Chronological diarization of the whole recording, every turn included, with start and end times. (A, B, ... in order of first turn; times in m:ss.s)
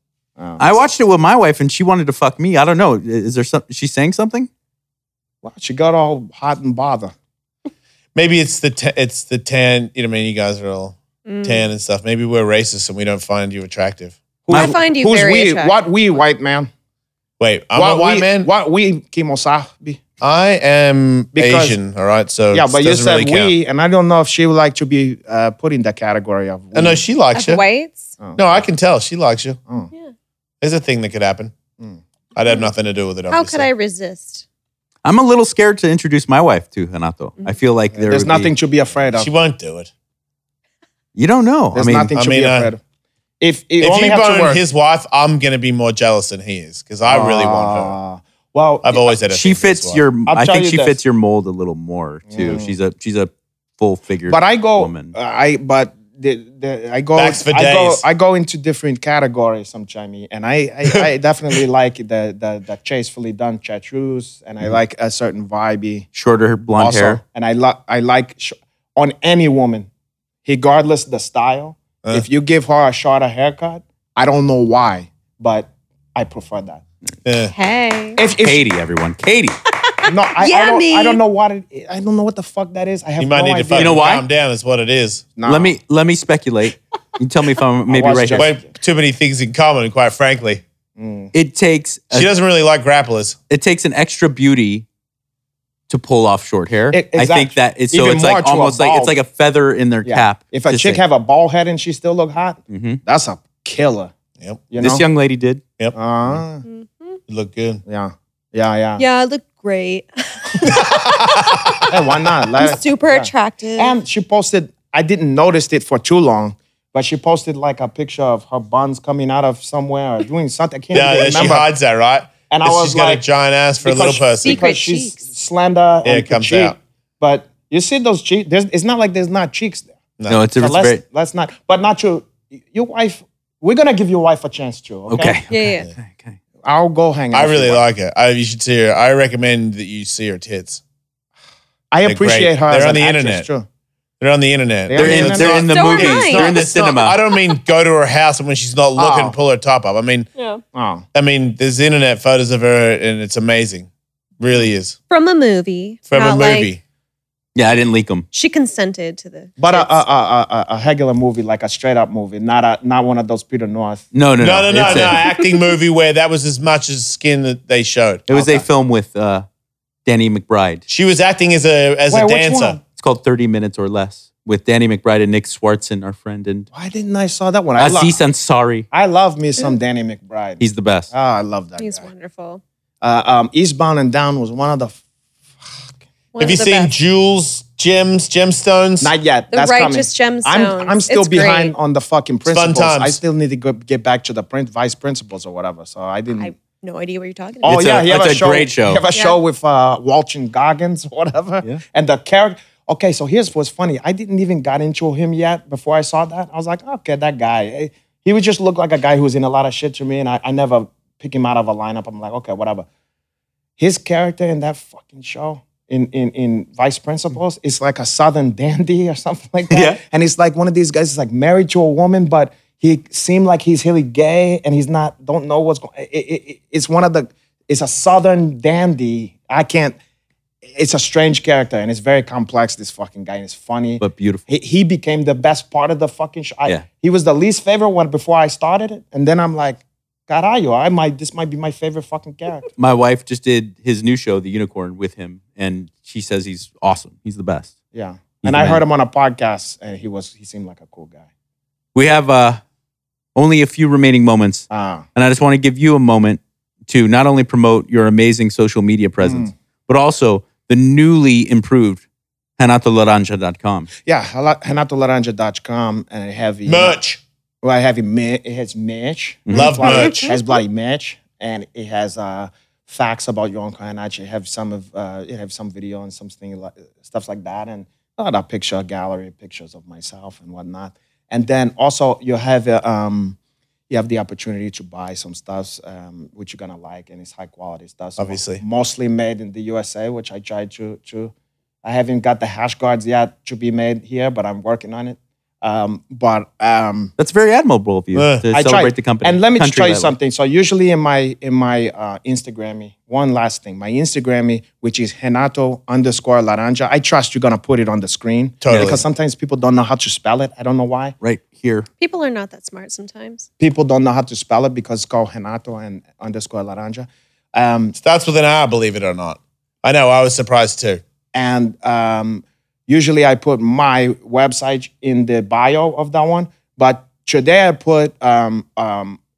0:00.4-0:00.8 A
0:00.6-0:04.5 B
0:05.4-0:07.1 A
0:08.2-0:14.2 C
0:11.3-0:11.6 D
0:14.5-0:16.7 A
0:14.5-0:14.8 B
0:14.5-0:15.8 D
0:17.4-0:18.5 C
0:17.7-0:20.0 A
0:20.2-0:23.5 C
0:21.4-0:21.8 A
0:22.5-0:27.0 A
0:26.7-0:27.6 C
0:27.3-0:28.2 D
0:28.2-0:28.6 A
0:28.4-0:29.6 C
0:30.6-0:31.5 C
0:32.4-0:33.7 C
0:33.3-0:34.4 D
0:35.0-0:38.5 B
0:37.9-0:39.3 A
0:39.2-0:39.9 C
0:41.2-0:42.1 B
0:41.7-0:42.8 A
0:42.2-0:42.7 C
0:43.4-0:44.6 A
0:43.8-0:48.0 C
0:47.1-0:49.1 A
0:48.8-0:50.0 C
0:49.3-0:55.1 B
0:50.3-0:51.0 A
0:52.3-0:52.7 A
0:54.3-1:06.1 A
0:57.2-0:58.0 C
1:06.2-1:07.2 B
1:06.8-1:09.9 A
1:10.4-1:16.8 A
1:17.2-1:17.5 C
1:17.4-1:18.2 D
1:18.2-1:18.7 A
1:18.4-1:19.6 B
1:19.8-1:21.2 D
1:20.0-1:24.0 A
1:23.2-1:25.3 C
1:23.8-1:24.2 B
1:25.4-1:25.8 A
1:25.5-1:28.5 B
1:27.9-1:28.7 A
1:28.4-1:30.6 C
1:31.0-1:31.3 A
1:31.3-1:32.3 B
1:32.1-1:33.4 C
1:33.5-1:34.9 B
1:35.9-1:41.0 B
1:36.9-1:39.2 A
1:40.0-1:44.1 A
1:42.7-1:43.0 B
1:44.7-1:45.0 A
1:44.8-1:45.6 B
1:45.9-1:46.6 A
1:46.6-1:47.2 D
1:47.3-1:47.8 C
1:47.9-1:49.0 A
1:49.0-1:50.7 D
1:50.6-1:51.9 C
1:51.9-2:01.7 A
1:52.6-1:54.0 D
2:00.9-2:04.6 C
2:02.5-2:03.2 A
2:03.8-2:09.9 A
2:04.4-2:05.2 D
2:06.0-2:06.8 C
2:10.3-2:11.0 B
2:10.6-2:15.4 A
2:15.1-2:16.4 B
2:15.5-2:15.9 D
2:16.6-2:17.8 A
2:17.3-2:20.8 C
2:21.9-2:23.7 A
2:22.0-2:23.5 C
2:24.2-2:30.3 C
2:24.9-2:25.6 A
2:25.0-2:27.2 B
2:25.7-2:26.6 D
2:29.0-2:29.4 A
2:30.7-2:31.1 A
2:31.1-2:33.9 C
2:34.4-2:35.0 C
2:35.1-2:36.7 D
2:36.1-2:36.8 C
2:37.6-2:38.3 B
2:38.3-2:39.9 D
2:39.6-2:44.1 A
2:44.1-2:45.2 B
2:44.4-2:48.3 C
2:44.8-2:45.0 A
2:45.1-2:45.6 D
2:48.3-2:49.5 B
2:48.3-2:48.6 A
2:50.1-2:50.8 B
2:50.9-2:52.8 C
2:52.1-2:52.8 A
2:53.0-2:56.7 B
2:56.7-2:58.2 A
2:57.8-2:58.9 B
2:58.9-3:02.0 A
3:00.6-3:01.1 B
3:01.8-3:02.6 D
3:03.0-3:05.0 A
3:06.4-3:06.9 D
3:06.4-3:09.1 C
3:09.0-3:16.5 A
3:09.5-3:11.7 D
3:12.5-3:13.2 C
3:16.3-3:17.8 D
3:17.6-3:32.9 A
3:17.6-3:19.0 B
3:33.8-3:50.0 A
3:39.7-3:40.0 B
3:50.6-4:02.7 A
3:54.0-3:54.5 B
4:02.8-4:07.7 B
4:07.9-4:11.2 A
4:08.4-4:08.8 B
4:12.0-4:12.6 B
4:13.4-4:22.0 B
4:14.7-4:15.1 A
4:19.2-4:19.5 A
4:22.6-4:23.9 B
4:24.0-4:27.0 A
4:26.7-4:27.2 C
4:27.6-4:43.4 A
4:29.5-4:29.8 B
4:29.5-4:30.4 C
4:43.9-4:51.3 A
4:48.2-4:48.6 C
4:51.8-4:57.1 A
4:57.2-5:00.2 B
4:58.1-4:58.5 C
4:58.5-5:11.2 A
5:08.6-5:09.0 C
5:08.7-5:09.0 B
5:11.2-5:11.9 B
5:12.0-5:13.5 D
5:13.6-5:18.0 A
5:18.0-5:21.0 C
5:21.3-5:29.2 A